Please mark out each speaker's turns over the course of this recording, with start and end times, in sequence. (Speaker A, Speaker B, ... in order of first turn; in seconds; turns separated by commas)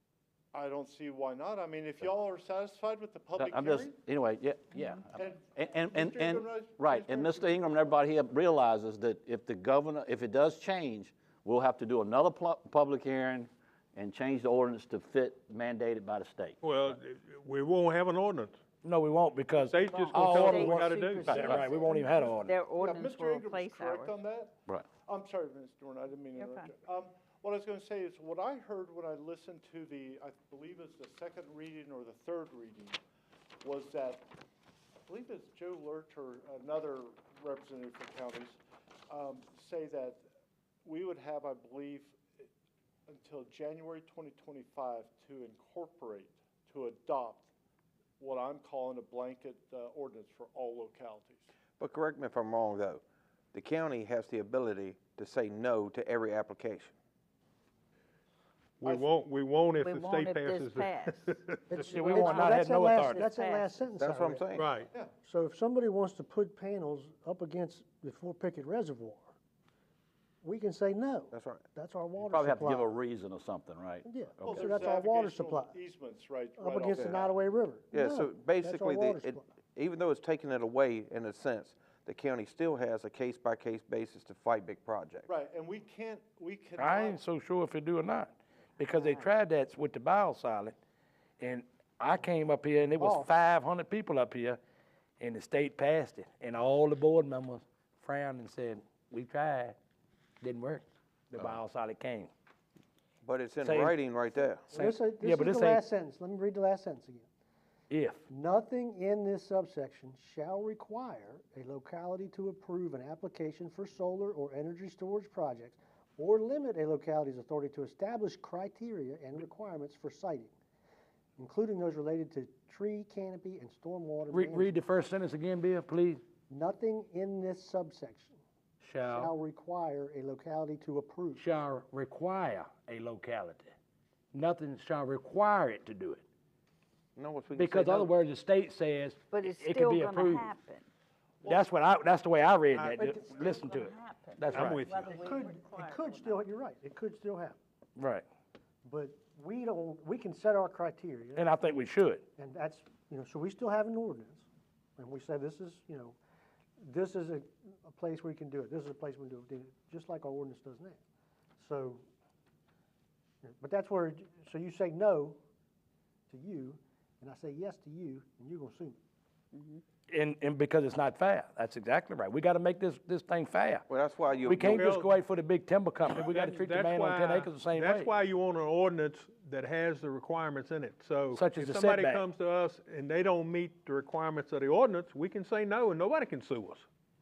Speaker A: 0.5-4.0, Speaker B: 3.4-16.6, Speaker A: 5.1-7.7, Speaker C: 16.6-18.6, Speaker D: 18.8-22.6, Speaker C: 19.5-21.7, Speaker E: 19.8-24.2, Speaker A: 22.7-33.0, Speaker E: 26.3-26.7, Speaker A: 33.6-34.2, Speaker A: 35.1-40.2, Speaker A: 40.8-42.2, Speaker A: 43.1-47.5, Speaker A: 48.2-51.5, Speaker F: 51.8-53.0, Speaker F: 53.5-56.9, Speaker C: 58.8-62.3, Speaker E: 59.8-61.3, Speaker G: 61.7-64.5, Speaker D: 61.8-63.3, Speaker E: 62.2-64.0, Speaker F: 64.0-64.7, Speaker C: 64.5-64.9, Speaker G: 65.2-69.3, Speaker G: 70.4-73.0, Speaker F: 71.3-71.6, Speaker B: 72.2-74.8, Speaker G: 74.0-75.8, Speaker A: 74.4-77.3, Speaker G: 76.6-79.4, Speaker F: 77.0-77.2, Speaker F: 77.9-85.3, Speaker A: 85.3-87.2, Speaker D: 86.8-90.7, Speaker D: 91.4-94.6, Speaker G: 93.0-93.3, Speaker D: 95.2-99.8, Speaker D: 100.4-102.3, Speaker F: 103.2-104.7, Speaker D: 103.6-104.0, Speaker D: 104.7-105.8, Speaker G: 104.7-107.3, Speaker D: 107.9-108.2, Speaker G: 108.3-120.5, Speaker G: 121.4-124.8, Speaker D: 124.3-126.2, Speaker G: 126.5-128.3, Speaker D: 128.8-129.3, Speaker G: 129.0-131.5, Speaker D: 131.3-133.7, Speaker D: 134.3-136.2, Speaker F: 137.2-138.1, Speaker D: 137.5-140.5, Speaker E: 139.3-140.8, Speaker D: 141.4-144.9, Speaker C: 142.7-143.0, Speaker E: 143.0-146.4, Speaker C: 144.5-145.1, Speaker G: 145.0-147.6, Speaker D: 148.0-148.2, Speaker G: 148.8-151.6, Speaker D: 151.3-152.2, Speaker G: 152.4-154.4, Speaker G: 155.0-156.2, Speaker G: 156.8-161.0, Speaker G: 161.6-162.0, Speaker G: 163.4-165.4, Speaker G: 166.3-169.0, Speaker E: 169.5-169.8, Speaker D: 170.1-173.8, Speaker F: 173.9-174.9, Speaker D: 174.4-178.1, Speaker C: 174.5-175.2, Speaker C: 176.0-186.8, Speaker D: 181.3-182.2